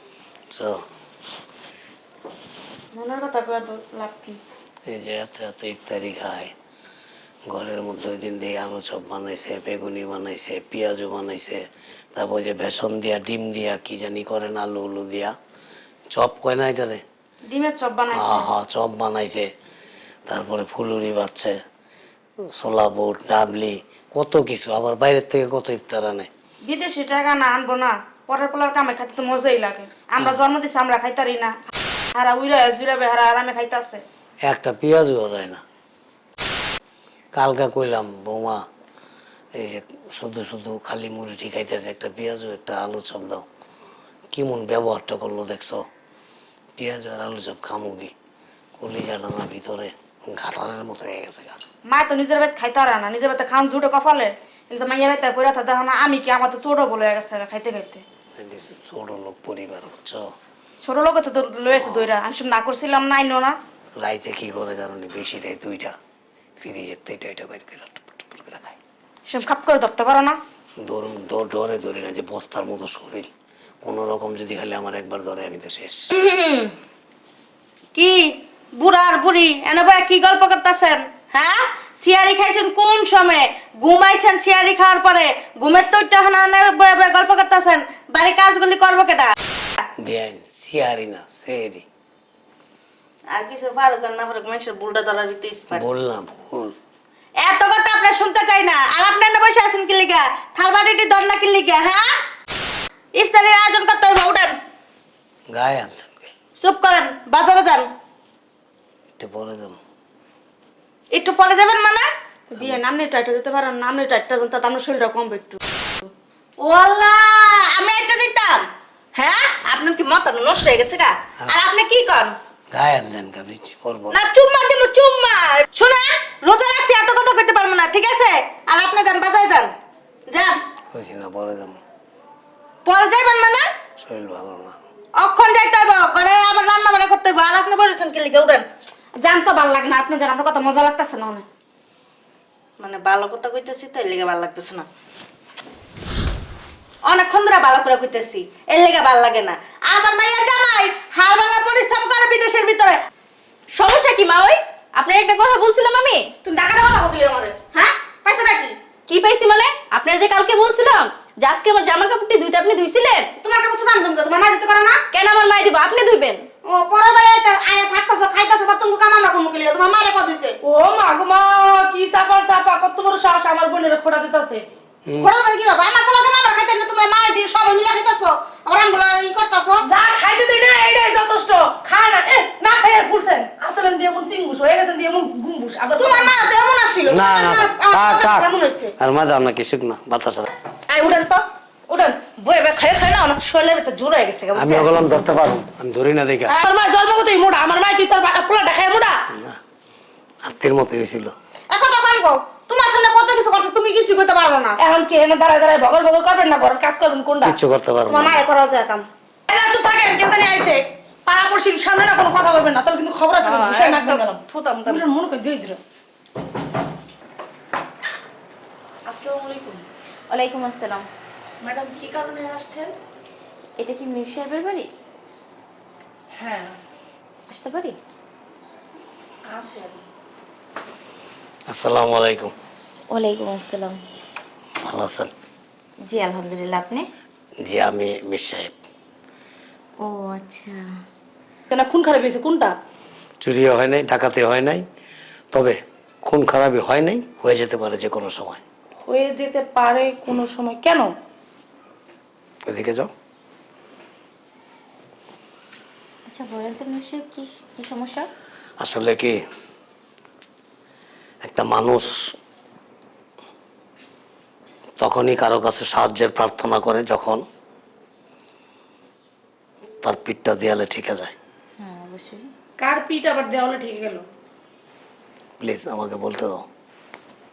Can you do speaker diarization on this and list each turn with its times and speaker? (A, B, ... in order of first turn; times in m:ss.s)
0:00.5-0:00.8 A
0:02.9-0:04.4 B
0:04.9-0:06.5 A
0:07.5-0:15.3 A
0:16.1-0:17.0 A
0:17.4-0:18.5 B
0:18.1-0:19.5 A
0:20.3-0:21.5 A
0:22.5-0:26.3 A
0:26.6-0:34.0 B
0:34.4-0:35.6 A
0:37.3-0:38.6 A
0:39.5-0:43.4 A
0:44.3-0:45.8 A
0:46.8-0:48.1 A
0:48.8-0:51.6 A
0:51.9-0:58.0 B
0:58.4-1:00.2 A
1:00.8-1:03.6 B
1:01.7-1:02.1 A
1:04.0-1:05.9 A
1:06.6-1:08.8 A
1:09.3-1:10.4 B
1:10.8-1:13.3 A
1:13.8-1:16.1 A
1:16.1-1:16.7 C
1:17.9-1:29.3 C
1:30.0-1:31.8 A
1:33.3-1:35.8 C
1:35.7-1:36.7 A
1:37.4-1:42.2 C
1:43.1-1:44.6 C
1:45.5-1:46.3 A
1:46.6-1:47.9 C
1:49.2-1:49.8 A
1:51.1-1:52.1 C
1:52.5-1:55.6 B
1:52.6-1:52.8 A
1:56.6-2:02.4 C
2:02.7-2:04.2 A
2:04.1-2:09.7 C
2:10.3-2:10.6 C
2:10.9-2:11.8 A
2:12.8-2:13.7 C
2:14.0-2:14.8 A
2:15.2-2:18.7 C
2:19.2-2:21.4 B
2:22.8-2:24.9 C
2:27.0-2:33.0 C
2:33.7-2:36.3 D
2:36.4-2:38.8 B
2:39.1-2:43.3 D
2:43.4-2:45.0 B
2:45.1-2:46.4 D
2:46.6-2:50.6 B
2:50.6-2:54.6 E
2:55.1-2:55.3 A
2:55.2-2:59.8 B
2:59.8-3:06.4 E
3:06.0-3:08.9 B
3:07.0-3:10.5 A
3:10.9-3:14.9 C
3:14.5-3:16.6 A
3:16.5-3:19.2 E
3:19.3-3:19.6 A
3:20.4-3:21.3 A
3:21.7-3:24.8 B
3:24.8-3:27.6 E
3:27.4-3:28.4 A
3:28.1-3:29.1 B
3:29.5-3:35.8 E
3:33.5-3:35.0 C
3:39.1-3:39.8 E
3:40.3-3:41.1 D
3:41.6-3:42.9 E
3:43.8-3:44.9 D
3:46.4-3:46.7 E
3:47.5-3:48.0 D
3:49.5-3:50.0 E
3:51.7-3:52.5 A
3:53.1-3:54.0 D
3:54.8-3:55.3 A
3:56.0-3:57.1 D
3:57.6-3:58.7 A
4:00.0-4:00.8 D
4:01.7-4:02.7 E
4:03.4-4:04.8 A
4:05.5-4:08.6 A
4:09.1-4:11.1 E
4:12.7-4:13.1 A
4:16.3-4:18.3 D
4:18.8-4:19.3 A
4:21.4-4:22.3 A
4:25.0-4:27.4 A
4:30.0-4:31.3 A
4:31.8-4:32.5 D
4:32.8-4:34.2 E
4:35.6-4:36.6 A